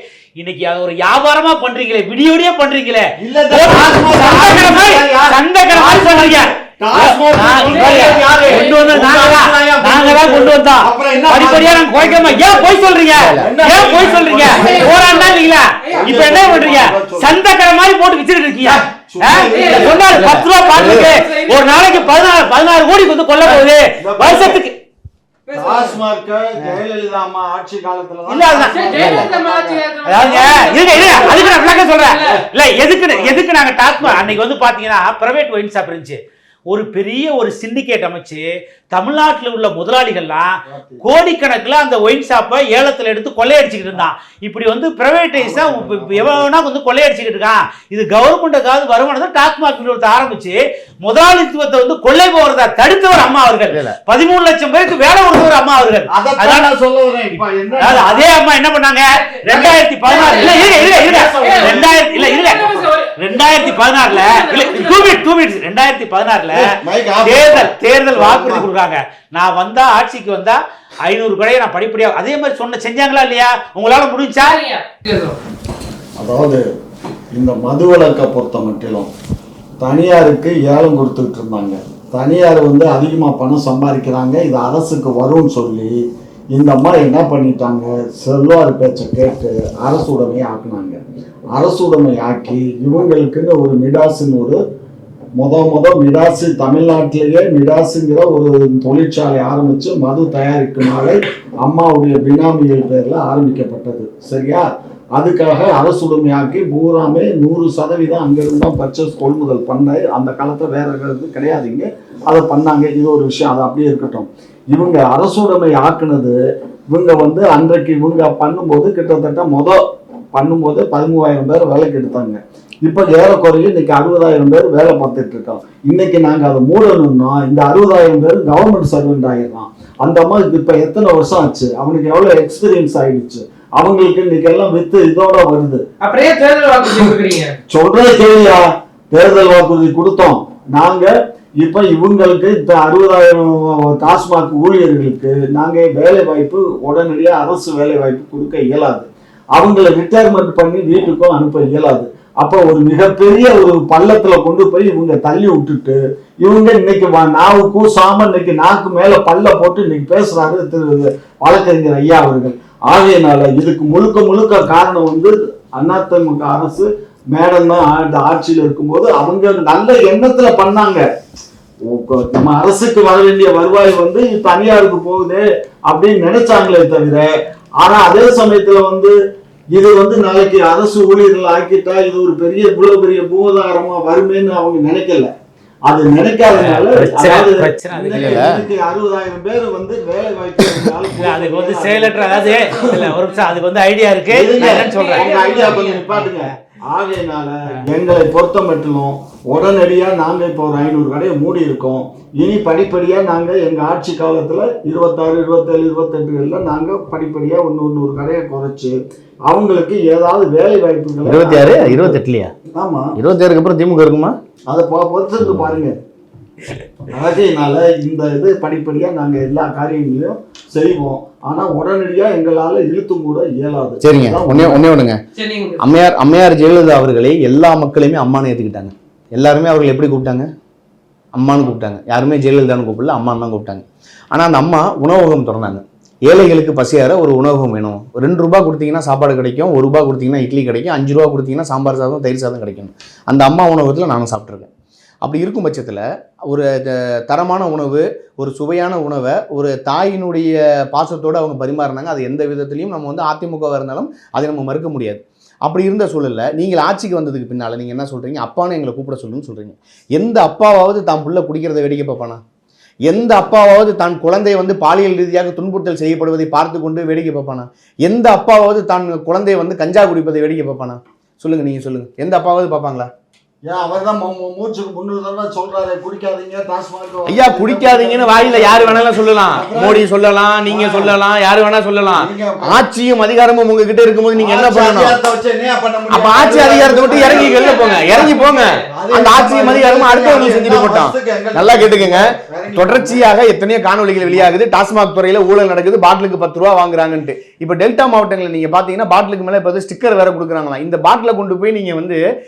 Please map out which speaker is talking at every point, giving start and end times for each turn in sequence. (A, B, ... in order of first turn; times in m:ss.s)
0:00.4-0:24.7 A
0:03.2-0:12.8 B
0:07.6-0:08.9 C
0:13.1-0:13.5 D
0:13.4-0:15.3 B
0:14.4-0:16.1 C
0:15.9-0:17.3 B
0:18.6-0:20.0 B
0:19.5-0:20.0 C
0:20.1-0:21.1 D
0:20.6-0:22.0 C
0:23.4-0:24.6 B
0:25.4-0:26.0 C
0:25.5-0:29.8 B
0:28.3-0:29.2 A
0:28.6-0:32.4 C
0:30.0-0:36.2 A
0:30.9-0:31.5 B
0:32.2-0:32.4 B
0:33.0-0:33.4 B
0:34.0-0:34.4 B
0:36.7-0:56.7 A
0:40.7-0:41.0 B
0:45.4-0:46.5 B
0:53.7-0:54.0 D
0:56.1-0:58.2 B
0:57.8-1:14.6 A
0:59.1-0:59.4 C
0:59.5-1:01.9 B
1:00.0-1:00.7 C
1:01.4-1:05.2 C
1:02.5-1:02.8 B
1:06.6-1:08.6 B
1:14.4-1:15.4 C
1:16.2-1:16.6 B
1:17.3-1:19.1 B
1:19.8-1:26.0 B
1:26.5-1:31.0 B
1:31.5-1:34.6 B
1:35.4-1:56.4 B
1:56.9-2:15.8 B
2:16.0-2:17.6 C
2:17.7-2:51.0 B
2:51.9-2:59.1 B
2:59.7-3:05.3 B
3:05.9-3:13.2 B
3:06.5-3:08.5 A
3:08.1-3:08.6 D
3:11.2-3:16.5 A
3:14.3-3:29.0 B
3:14.6-3:16.1 C
3:29.5-3:32.2 B
3:31.2-3:32.5 D
3:32.7-3:33.1 B
3:33.2-3:34.3 D
3:34.7-3:36.0 B
3:35.4-3:35.8 D
3:37.1-3:44.8 B
3:44.0-3:45.2 D
3:45.4-3:45.8 C
3:45.8-3:50.5 D
3:51.3-4:04.7 D
4:05.2-4:22.4 D
4:23.1-4:33.1 D
4:33.7-4:40.0 B
4:37.3-4:45.2 D
4:40.7-4:41.1 B
4:42.1-4:42.8 B
4:44.4-4:53.2 B
4:46.1-5:02.2 D
4:47.1-4:48.8 C
4:54.2-4:54.5 B